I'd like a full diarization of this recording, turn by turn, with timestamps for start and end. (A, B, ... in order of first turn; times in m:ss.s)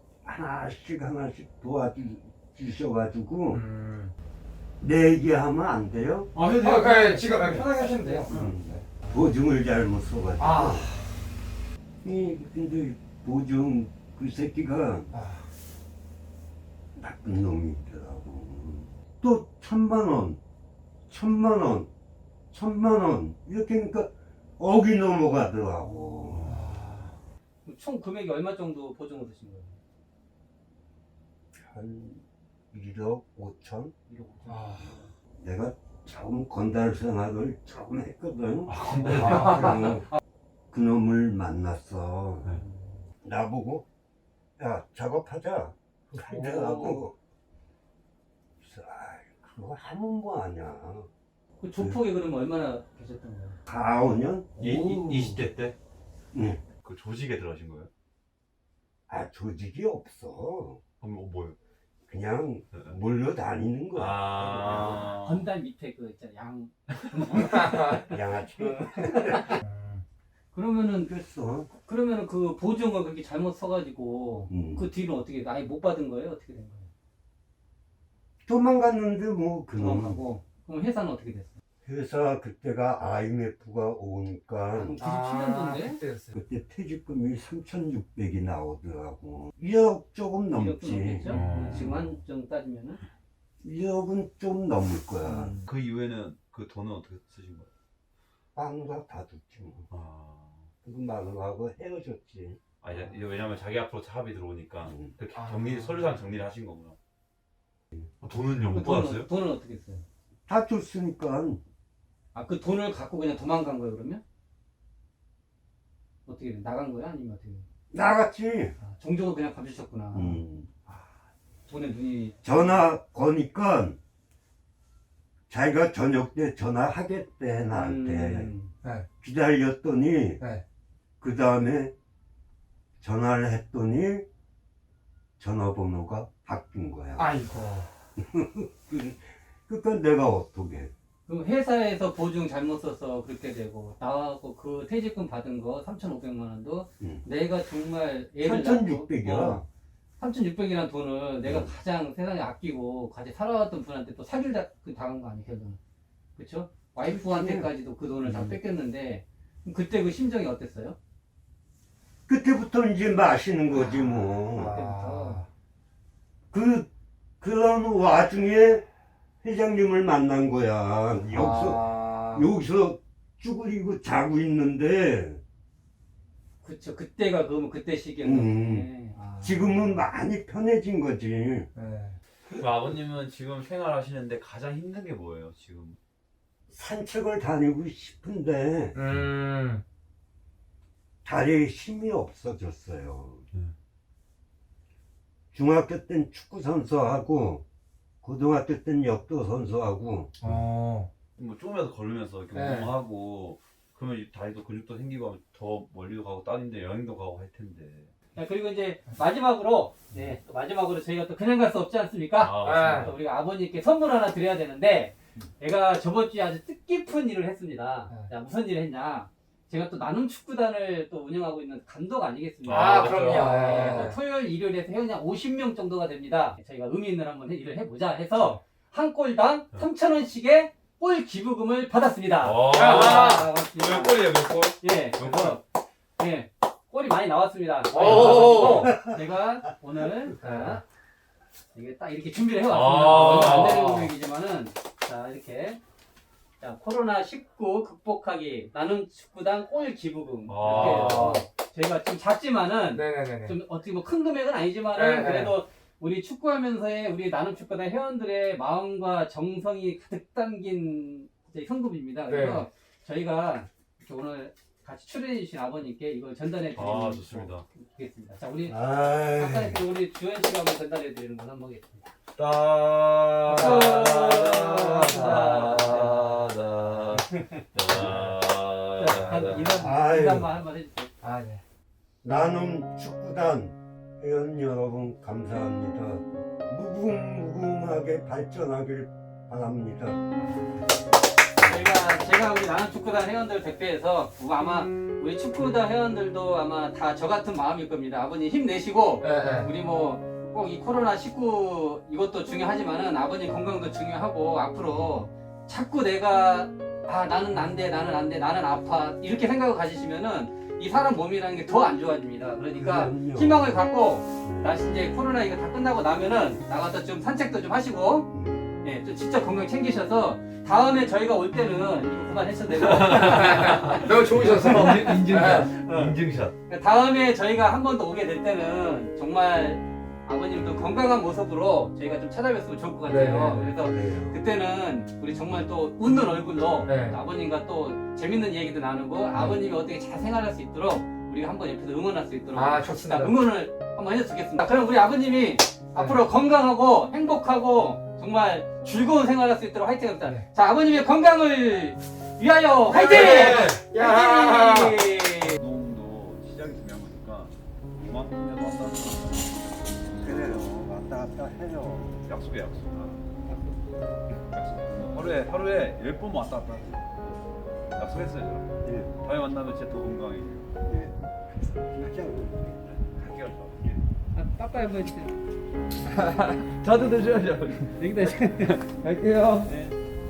0:00.2-0:03.7 A
0:03.5-0:04.1 B
0:04.8-0:06.3 A
0:06.3-0:08.5 C
0:06.4-0:09.0 B
0:08.3-0:10.9 A
0:10.4-0:11.2 B
0:12.0-0:15.1 A
0:15.1-0:15.4 B
0:17.0-0:20.4 A
0:21.1-0:21.9 A
0:22.5-0:26.6 A
0:26.3-0:27.0 C
0:26.4-0:27.1 B
0:27.6-0:29.8 D
0:31.6-0:33.9 A
0:34.1-0:35.0 D
0:34.5-0:34.9 B
0:35.3-0:40.1 A
0:38.7-0:39.7 C
0:39.4-0:39.8 B
0:40.7-0:42.6 A
0:42.6-0:43.0 D
0:43.2-0:43.8 A
0:44.6-0:47.2 A
0:46.3-0:47.0 D
0:48.6-0:51.1 A
0:51.6-0:53.6 D
0:53.7-0:55.1 A
0:54.6-0:55.8 C
0:54.8-0:55.2 D
0:56.3-0:56.6 A
0:56.8-0:57.9 C
0:59.1-1:00.8 A
1:01.0-1:01.6 C
1:02.1-1:05.1 A
1:03.9-1:05.5 C
1:05.0-1:09.6 D
1:07.4-1:08.0 B
1:07.9-1:09.6 A
1:09.6-1:10.0 B
1:10.5-1:11.1 D
1:11.0-1:11.7 A
1:11.7-1:16.9 D
1:14.5-1:14.9 A
1:18.4-1:20.2 A
1:19.8-1:21.6 D
1:21.8-1:25.0 A
1:24.7-1:26.0 D
1:25.0-1:26.3 B
1:26.3-1:32.1 A
1:30.5-1:33.0 D
1:31.3-1:32.0 C
1:33.6-1:35.6 A
1:35.2-1:35.7 D
1:35.6-1:37.7 C
1:38.5-1:39.9 A
1:39.9-1:40.7 C
1:40.8-1:42.6 A
1:42.8-1:47.0 C
1:44.8-1:45.1 A
1:45.3-1:46.1 B
1:48.2-1:49.3 C
1:48.7-1:50.0 D
1:50.5-1:51.6 A
1:52.3-1:54.2 D
1:56.2-1:57.6 D
1:57.9-1:58.7 A
1:58.8-2:00.4 D
2:00.1-2:00.9 A
2:01.7-2:02.6 D
2:02.4-2:04.0 A
2:05.5-2:08.6 A
2:07.7-2:08.7 D
2:09.2-2:10.4 A
2:11.2-2:11.9 A
2:13.0-2:14.2 A
2:15.4-2:17.4 A
2:17.2-2:17.9 B
2:18.2-2:20.9 A
2:21.2-2:29.6 D
2:27.0-2:27.2 A
2:28.4-2:29.6 A
2:30.2-2:35.8 D
2:31.4-2:31.7 A
2:36.4-2:41.0 D
2:37.0-2:37.7 A
2:38.2-2:38.6 A
2:42.3-2:44.8 A
2:43.8-2:45.4 D
2:44.5-2:45.5 B
2:46.5-2:46.9 A
2:47.4-2:48.8 A
2:49.4-2:55.4 A
2:51.3-2:52.5 B
2:56.6-2:59.6 D
2:58.2-2:58.9 A
2:59.4-3:01.7 A
3:01.8-3:02.2 B
3:02.6-3:06.0 C
3:06.7-3:09.0 A
3:08.9-3:09.8 B
3:11.2-3:13.4 A
3:15.5-3:17.6 A
3:18.2-3:20.4 A
3:20.4-3:21.1 B
3:21.4-3:28.1 C
3:22.5-3:22.9 B
3:28.3-3:55.6 D
3:32.4-3:33.1 C
3:32.6-3:33.1 B
3:42.6-3:43.8 C
3:42.7-3:44.2 B
3:52.4-3:55.6 C
3:52.7-3:53.5 B
3:56.2-4:00.8 D
3:57.9-3:59.0 B
4:01.7-4:05.8 D
4:02.7-4:03.9 C
4:03.6-4:04.1 B
4:06.6-4:32.1 D
4:10.5-4:11.4 C
4:10.6-4:11.4 B
4:12.9-4:13.5 B
4:14.9-4:15.5 B
4:22.3-4:22.6 B
4:26.7-4:27.6 C
4:28.7-4:29.8 A
4:32.4-4:39.7 C
4:33.5-4:38.1 D
4:39.0-4:41.1 D
4:39.8-4:40.5 A
4:41.2-4:41.6 B
4:42.2-4:50.3 A
4:51.6-5:55.5 D
4:59.2-4:59.7 B
5:05.0-5:05.2 A
5:12.7-5:13.8 A
5:14.4-5:14.8 A
5:18.3-5:18.7 A
5:22.8-5:26.5 C
5:23.2-5:25.7 B
5:33.1-5:33.7 B
5:33.8-5:34.5 A
5:36.9-5:37.2 B
5:42.5-5:43.4 B
5:52.9-5:55.0 B
5:53.2-5:53.7 C
5:55.4-6:00.9 C
6:00.2-6:02.2 A
6:02.0-6:03.2 C
6:03.5-6:04.0 D
6:04.5-6:07.4 C
6:07.9-6:10.8 C
6:10.8-6:11.1 A
6:11.8-6:12.8 A
6:13.0-6:14.0 C
6:14.3-6:15.4 D
6:16.2-6:18.3 C
6:18.0-6:19.0 D
6:19.0-6:19.7 B
6:19.6-6:20.0 D